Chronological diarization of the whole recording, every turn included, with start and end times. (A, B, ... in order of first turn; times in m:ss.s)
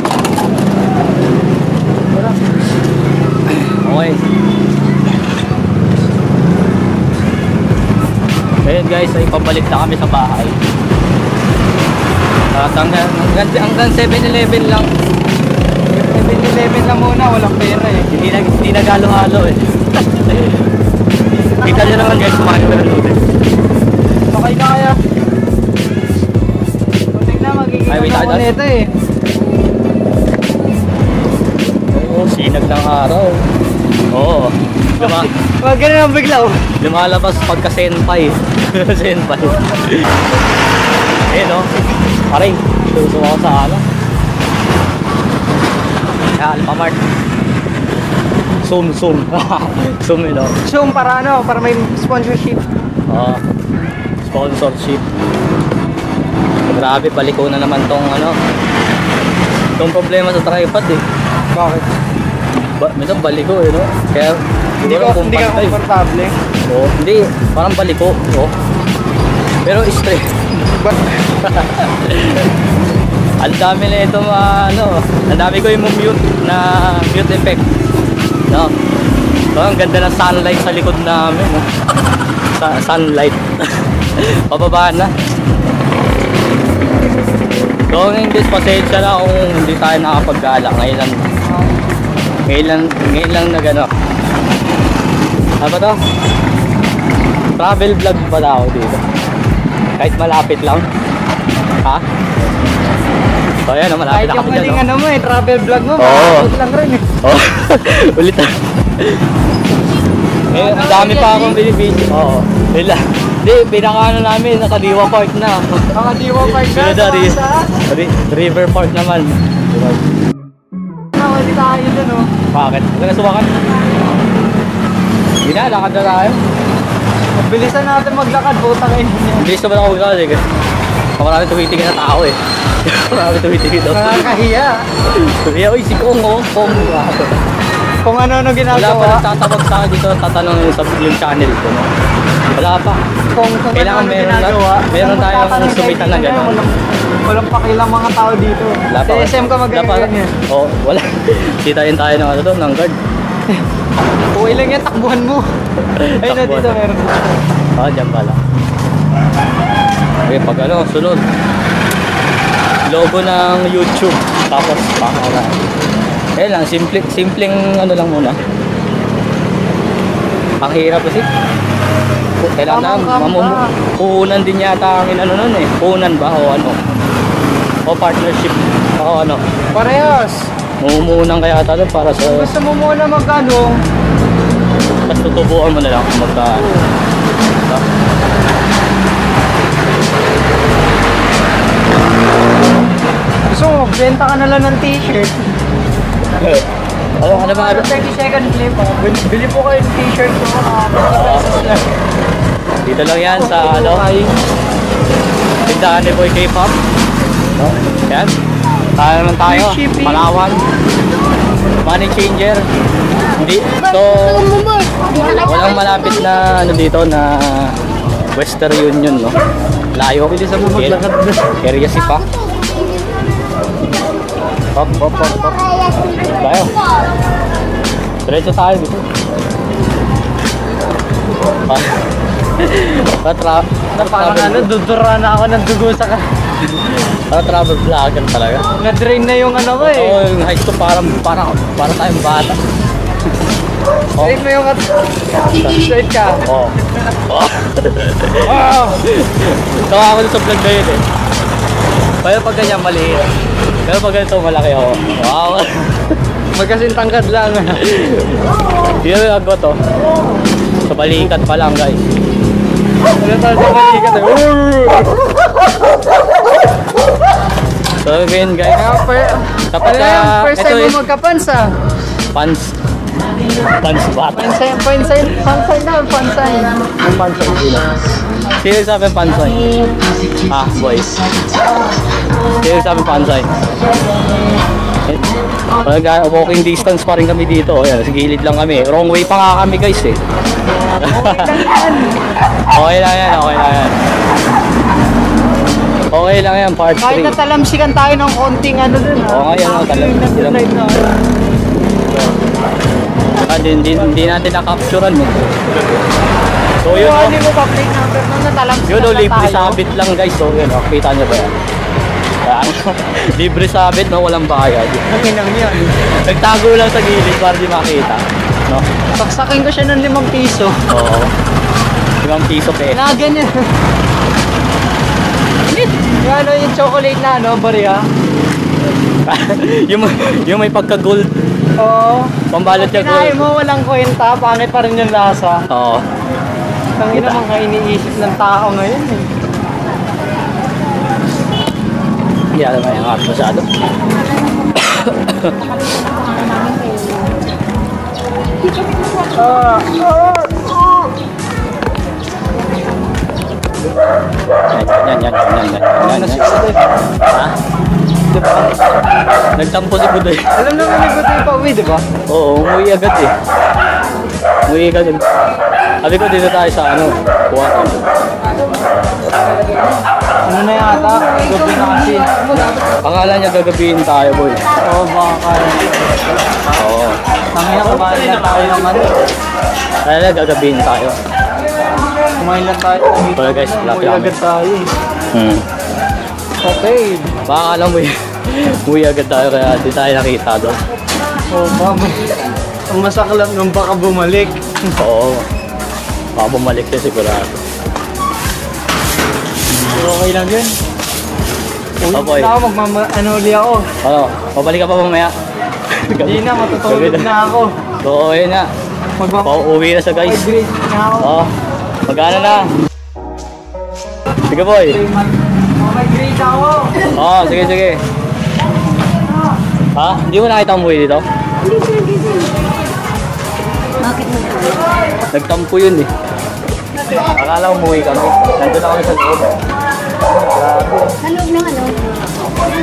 0:03.6-0:04.2 A
0:08.6-0:10.6 A
0:12.5-0:14.9 A
0:15.9-0:18.1 B
0:18.1-0:20.6 A
0:21.5-0:22.2 B
0:21.6-0:23.2 A
0:24.3-0:25.0 B
0:27.1-0:28.9 B
0:27.9-0:28.5 A
0:31.9-0:33.4 A
0:34.1-0:35.3 A
0:35.0-0:36.6 B
0:36.8-0:40.1 A
0:41.3-0:41.7 A
0:42.3-0:43.8 A
0:46.4-0:47.0 A
0:48.6-0:50.5 A
0:50.6-0:52.6 B
0:53.1-0:53.4 A
0:54.2-0:55.0 A
0:56.7-0:58.4 A
0:59.8-1:01.0 A
1:01.5-1:01.9 B
1:02.8-1:05.8 A
1:04.8-1:06.3 B
1:06.7-1:08.5 A
1:09.6-1:10.2 A
1:10.6-1:11.0 B
1:11.4-1:12.5 A
1:13.4-1:17.6 A
1:19.5-1:21.6 A
1:22.5-1:25.1 A
1:27.9-1:31.2 A
1:32.5-1:33.9 A
1:35.6-1:36.0 A
1:37.6-1:39.0 A
1:40.0-1:40.9 A
1:43.7-1:44.8 A
1:44.1-1:47.0 B
1:46.0-1:46.5 A
1:47.2-1:49.2 A
1:50.5-1:51.6 B
1:50.5-1:55.9 A
1:55.9-1:57.7 B
1:56.4-2:00.0 A
2:01.2-2:02.3 B
2:02.5-2:03.5 A
2:05.4-2:06.4 A
2:07.4-2:09.5 B
2:09.4-2:10.4 A
2:11.2-2:14.3 A
2:13.9-2:14.7 B
2:15.1-2:17.3 A
2:18.0-2:19.2 B
2:18.7-2:21.9 A
2:22.5-2:23.0 A
2:23.3-2:26.7 B
2:23.7-2:26.6 A
2:27.3-2:30.3 B
2:28.9-2:33.0 A
2:34.3-2:35.4 B
2:36.0-2:36.8 A
2:36.2-2:37.3 B
2:37.8-2:38.4 A
2:40.2-2:41.2 A
2:42.9-2:45.6 A
2:46.4-2:48.4 A
2:50.6-2:51.3 A
2:52.4-2:56.8 A
2:52.7-2:53.6 B
2:57.8-2:59.4 A
2:59.7-3:00.5 B
3:00.8-3:02.4 A
3:02.2-3:03.7 B
3:05.1-3:06.6 A
3:06.6-3:06.8 B
3:13.5-3:15.4 B
3:16.4-3:16.6 A
3:17.2-3:17.9 A
3:17.3-3:21.8 B
3:21.1-3:21.5 A
3:22.8-3:24.0 A
3:23.3-3:24.3 B
3:25.6-3:26.8 A
3:27.6-3:28.3 A
3:29.0-3:30.7 A
3:29.4-3:30.3 B
3:31.8-3:32.6 A
3:33.4-3:34.6 A
3:34.4-3:35.4 C
3:35.3-3:37.7 A
3:38.3-3:39.4 A
3:39.9-3:41.0 A
3:40.3-3:41.5 B
3:41.6-3:42.3 A
3:44.8-3:46.8 A
3:48.2-3:49.0 A
3:51.7-3:52.0 A
3:52.6-3:54.7 A
3:54.0-3:56.2 B
3:56.7-3:58.6 A
3:58.8-4:00.2 B
3:59.8-4:02.6 A
4:04.2-4:04.8 B
4:05.6-4:06.4 B
4:06.4-4:06.7 A
4:07.3-4:11.0 A
4:12.2-4:13.3 A
4:13.8-4:16.2 A
4:16.5-4:17.8 B
4:17.8-4:18.4 A
4:19.0-4:19.8 A
4:20.8-4:22.0 A
4:23.2-4:25.1 B
4:28.0-4:28.8 A
4:28.7-4:31.7 B
4:29.7-4:31.0 A
4:32.3-4:32.7 A
4:33.8-4:34.6 A
4:34.3-4:36.8 B
4:37.1-4:37.8 A
4:38.6-4:39.6 A
4:40.5-4:41.1 A
4:42.6-4:43.5 A
4:45.8-4:50.2 A
4:51.0-4:52.2 B
4:51.0-4:51.8 A
4:52.7-4:54.0 A
4:56.1-4:57.3 A
4:57.0-5:01.1 B
4:59.3-5:00.6 A
5:03.5-5:06.0 A
5:06.8-5:07.4 A
5:06.9-5:09.8 B
5:08.9-5:11.5 A
5:12.4-5:15.0 A
5:15.1-5:15.9 B
5:15.7-5:18.8 A
5:19.1-5:20.7 B
5:20.9-5:21.3 A
5:22.2-5:23.1 A
5:22.9-5:23.6 B
5:26.2-5:28.0 B
5:29.2-5:31.3 A
5:31.8-5:35.6 B
5:32.5-5:33.5 A
5:35.7-5:36.0 A
5:37.0-5:39.3 B
5:37.1-5:37.4 A
5:42.5-5:43.6 A
5:44.8-5:45.6 A
5:46.4-5:47.3 C
5:49.3-5:50.7 B
5:54.7-5:56.4 A
5:56.0-5:56.8 B
5:59.6-6:00.4 A
6:00.5-6:02.0 B
6:02.3-6:03.3 A
6:04.7-6:05.2 A
6:06.0-6:08.0 A
6:10.4-6:12.4 B
6:12.5-6:14.6 A
6:14.8-6:15.8 B
6:16.8-6:17.2 A
6:17.5-6:19.1 B
6:20.0-6:21.1 A
6:22.4-6:24.9 B
6:23.4-6:24.3 A
6:25.3-6:25.6 A
6:26.6-6:27.3 B
6:27.5-6:30.8 A
6:31.5-6:32.2 B
6:32.9-6:34.6 B
6:35.0-6:35.4 A
6:36.4-6:37.6 A
6:39.9-6:40.8 B
6:42.0-6:43.9 B
6:42.1-6:42.5 A
6:44.0-6:45.3 A
6:46.0-6:47.3 A
6:46.1-6:47.7 B
6:48.0-6:48.7 A
6:49.2-6:49.5 B
6:49.4-6:50.4 A
6:50.1-6:51.3 B
6:51.2-6:51.5 A
6:52.1-6:52.7 A
6:54.5-6:55.0 A
6:55.8-6:57.1 B
6:57.1-6:58.0 A
7:00.0-7:01.2 A
7:01.7-7:02.5 C
7:04.0-7:04.7 C
7:05.3-7:06.1 A
7:07.3-7:09.6 A
7:10.3-7:11.2 A
7:11.2-7:12.0 C